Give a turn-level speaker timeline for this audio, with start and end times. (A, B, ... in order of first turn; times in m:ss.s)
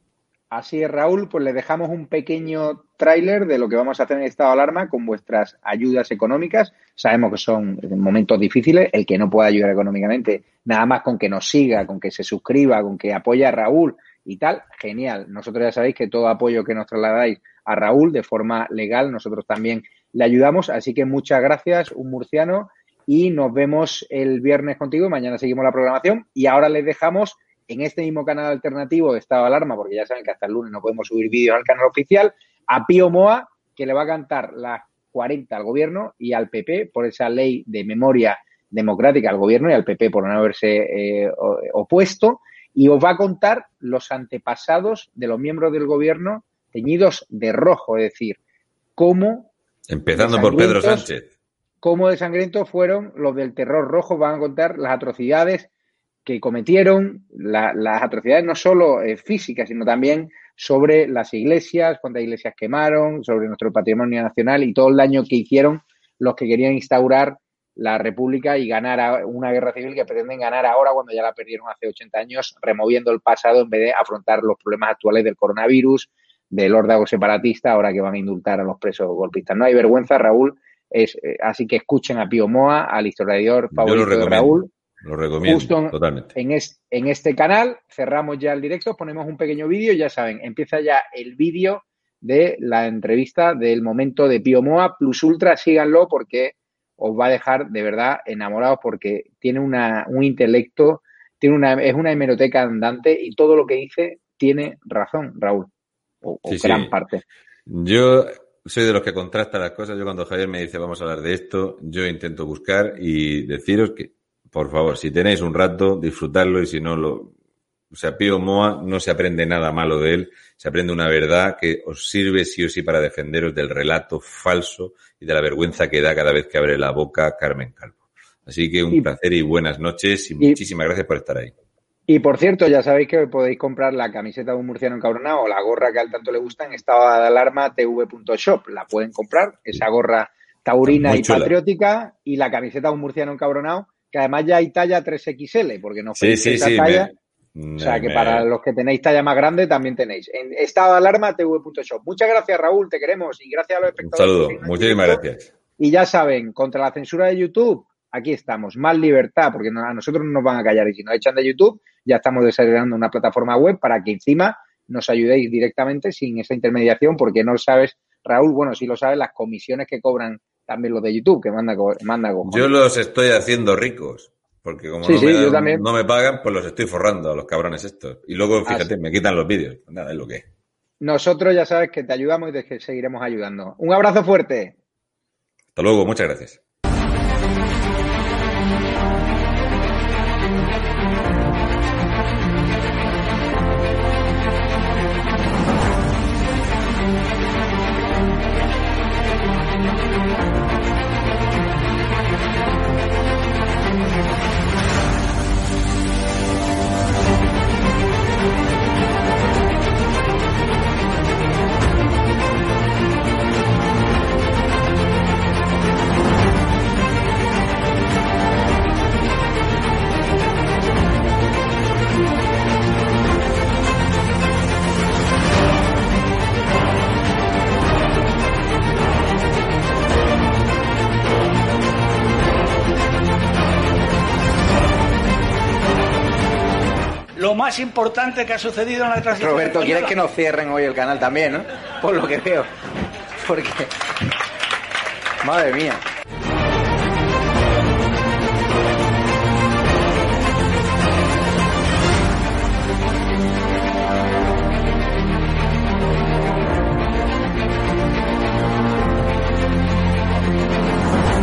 0:00.5-0:48.4 A
0:49.0-0:49.5 A
0:49.9-0:51.3 B
0:50.2-0:51.1 A
0:51.8-0:55.7 A
0:56.2-1:24.7 A
1:23.7-1:26.4 B
1:25.4-1:45.7 A
1:46.2-1:47.2 A
1:46.5-1:46.9 B
1:47.7-1:57.3 B
1:57.9-2:11.5 B
2:12.1-2:27.1 A
2:20.8-2:21.5 B
2:26.2-2:28.5 B
2:27.8-2:35.2 A
2:34.0-2:35.5 B
2:35.8-2:52.7 A
2:52.4-3:00.5 B
2:55.0-2:55.8 A
2:58.7-2:58.9 A
3:01.0-3:04.8 A
3:05.8-3:06.6 B
3:57.4-4:00.2 C
3:59.4-4:02.7 A
4:03.4-4:03.9 A
4:05.4-4:06.0 A